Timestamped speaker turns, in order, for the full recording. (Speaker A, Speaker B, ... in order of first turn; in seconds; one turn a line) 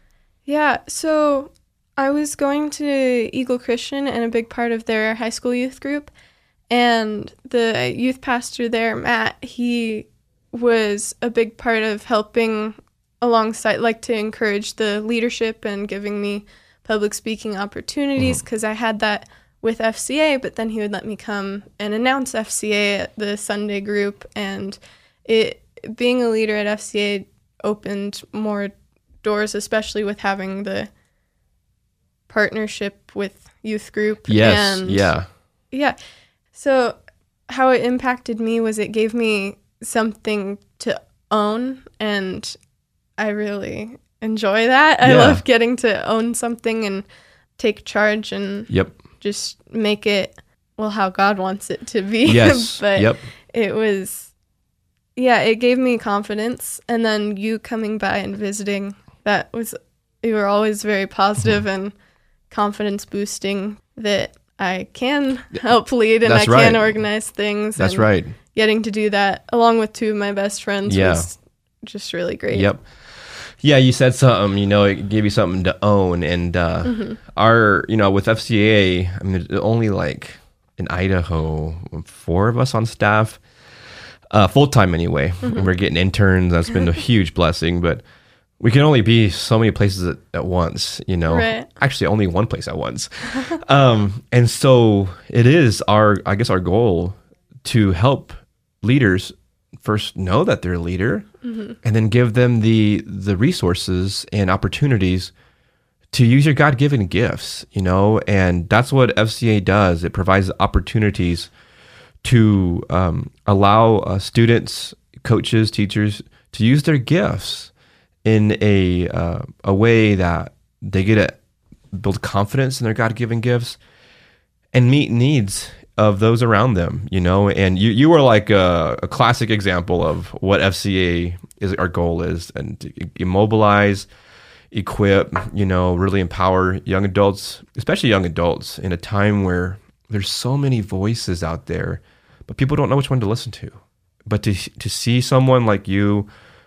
Speaker A: 0.5-6.1
Speaker A: 6.7-30.9
Speaker A: 32.3-35.1
Speaker B: 34.3-35.3
Speaker A: 35.7-36.0
Speaker A: 36.5-37.0
Speaker A: 37.5-42.6
Speaker A: 43.2-47.1
Speaker B: 45.0-45.4
Speaker A: 47.6-54.3
Speaker B: 52.3-53.2
Speaker A: 55.2-62.0
Speaker A: 62.5-72.7
Speaker B: 66.2-67.0
Speaker B: 67.8-68.4
Speaker B: 70.9-71.3
Speaker B: 72.5-72.8
Speaker B: 73.6-83.4
Speaker A: 76.8-77.2
Speaker B: 84.3-88.0
Speaker A: 85.4-85.7
Speaker B: 88.6-101.3
Speaker A: 91.3-91.7
Speaker A: 101.4-101.8
Speaker B: 101.8-105.3
Speaker B: 106.1-111.5
Speaker B: 112.2-117.7
Speaker B: 118.2-121.4
Speaker B: 121.9-123.8
Speaker B: 124.7-134.1
Speaker B: 134.7-146.3